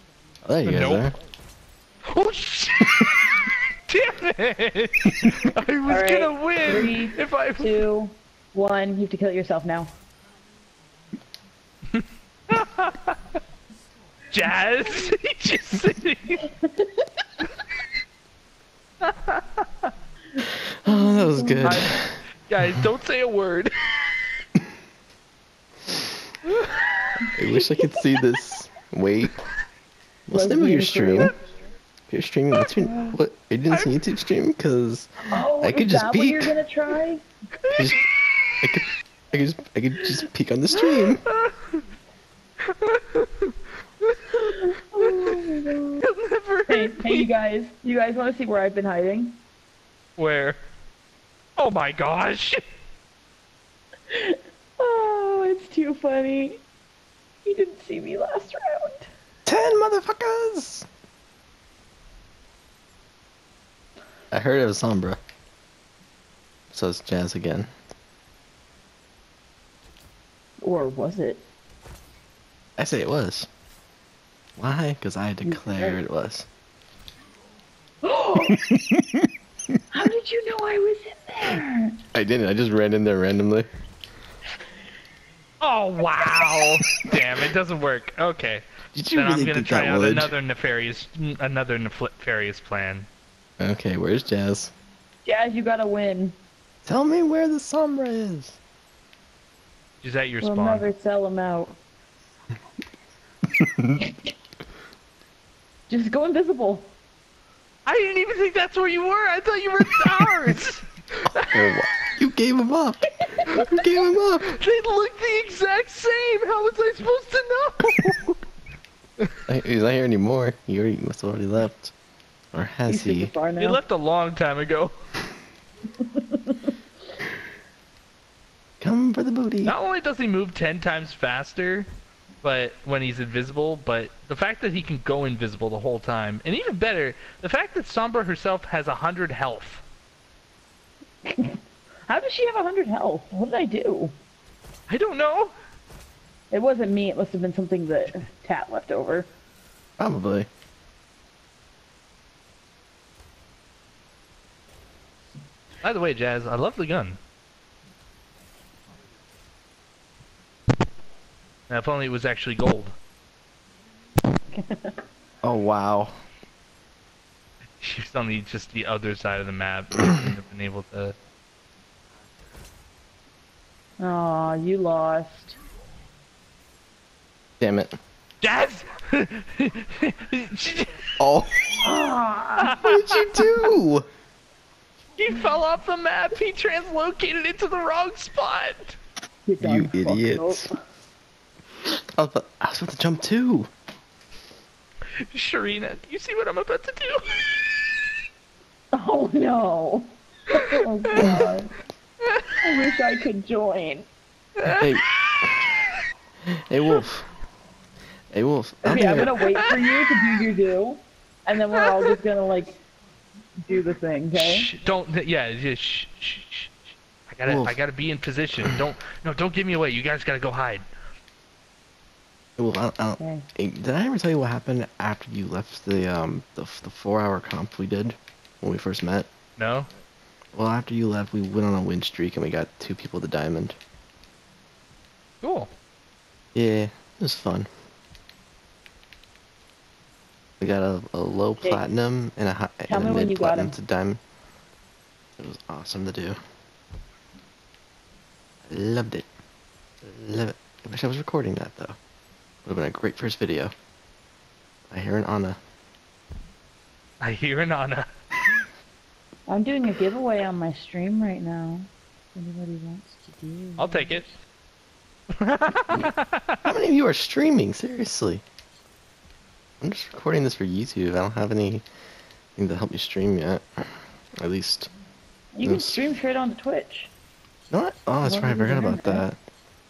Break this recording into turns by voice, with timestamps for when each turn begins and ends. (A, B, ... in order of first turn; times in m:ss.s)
0:00.4-0:01.1 A
0:00.6-0:01.1 B
0:02.1-0:07.8 B
0:05.9-0:09.9 C
0:12.0-0:13.2 B
0:14.3-0:16.4 B
0:16.5-0:17.0 C
0:19.0-0:19.4 B
0:20.8-0:22.2 A
0:20.9-0:21.9 C
0:21.6-0:22.0 B
0:22.5-0:23.9 B
0:26.5-0:27.2 B
0:27.4-0:29.4 A
0:27.4-0:27.8 C
0:30.3-0:31.3 A
0:30.3-0:31.3 C
0:32.1-0:36.5 A
0:32.8-0:33.2 C
0:33.7-0:34.0 B
0:35.2-0:37.2 C
0:37.6-0:38.7 B
0:37.8-0:38.0 A
0:38.6-0:41.2 A
0:40.7-0:41.8 B
0:42.6-0:45.4 B
0:44.4-0:46.0 C
0:46.0-0:47.3 B
0:46.7-0:49.4 C
0:50.2-0:50.6 B
0:51.6-0:52.6 B
0:54.1-0:56.6 C
0:57.4-0:59.1 C
0:59.5-1:00.9 A
1:04.3-1:05.2 A
1:06.7-1:07.7 A
1:10.6-1:11.4 C
1:12.8-1:13.5 A
1:14.6-1:16.5 A
1:15.4-1:16.0 C
1:18.0-1:18.6 C
1:18.5-1:19.3 A
1:19.9-1:22.0 C
1:22.1-1:23.7 A
1:25.6-1:33.1 B
1:28.9-1:30.3 A
1:33.6-1:34.7 A
1:35.2-1:36.4 C
1:36.8-1:38.6 A
1:40.0-1:40.9 B
1:40.4-1:41.8 C
1:43.6-1:44.0 A
1:45.9-1:46.9 C
1:47.9-1:51.8 B
1:51.3-1:54.5 A
1:53.3-1:53.8 C
1:54.4-1:58.4 B
1:59.5-2:01.9 A
2:02.5-2:03.4 A
2:02.9-2:03.8 C
2:03.6-2:04.9 B
2:06.1-2:06.7 C
2:08.8-2:09.8 A
2:09.6-2:11.9 B
2:12.4-2:19.8 B
2:21.2-2:24.1 C
2:24.9-2:25.5 B
2:26.5-2:29.3 C
2:30.0-2:30.5 A
2:35.8-2:37.2 B
2:41.7-2:42.9 B
2:44.5-2:45.0 C
2:45.4-2:46.1 A
2:47.8-2:51.1 B
2:54.0-2:55.6 C
2:57.6-2:58.0 A
2:58.4-3:01.0 B
3:01.2-3:01.6 A
3:01.8-3:02.8 C
3:02.6-3:03.6 B
3:02.8-3:04.0 A
3:05.2-3:09.0 B
3:09.5-3:10.7 C
3:09.6-3:10.7 A
3:12.2-3:13.7 A
3:15.2-3:17.7 B
3:18.9-3:21.7 C
3:22.6-3:24.1 C
3:24.6-3:25.5 B
3:24.7-3:25.7 A
3:26.5-3:27.3 A
3:28.3-3:29.4 A
3:28.8-3:32.8 C
3:29.4-3:30.0 B
3:31.8-3:32.1 B
3:33.6-3:34.7 C
3:34.4-3:40.8 B
3:37.5-3:37.8 A
3:42.6-3:49.3 A
3:43.2-3:43.5 C
3:49.6-3:49.9 B
3:50.5-3:53.8 A
3:55.4-3:55.7 B
3:56.5-3:57.7 A
4:00.6-4:04.2 A
4:02.9-4:03.8 C
4:05.4-4:06.4 A
4:08.7-4:09.2 A
4:10.0-4:12.0 A
4:12.6-4:13.7 A
4:14.9-4:15.6 A
4:17.2-4:18.1 B
4:19.5-4:24.2 C
4:23.8-4:24.2 B
4:25.4-4:26.6 B
4:26.6-4:28.4 A
4:29.8-4:31.8 A
4:32.6-4:33.9 A
4:34.4-4:34.9 A
4:35.5-4:37.1 C
4:35.6-4:36.0 A
4:37.7-4:39.4 A
4:38.2-4:39.2 C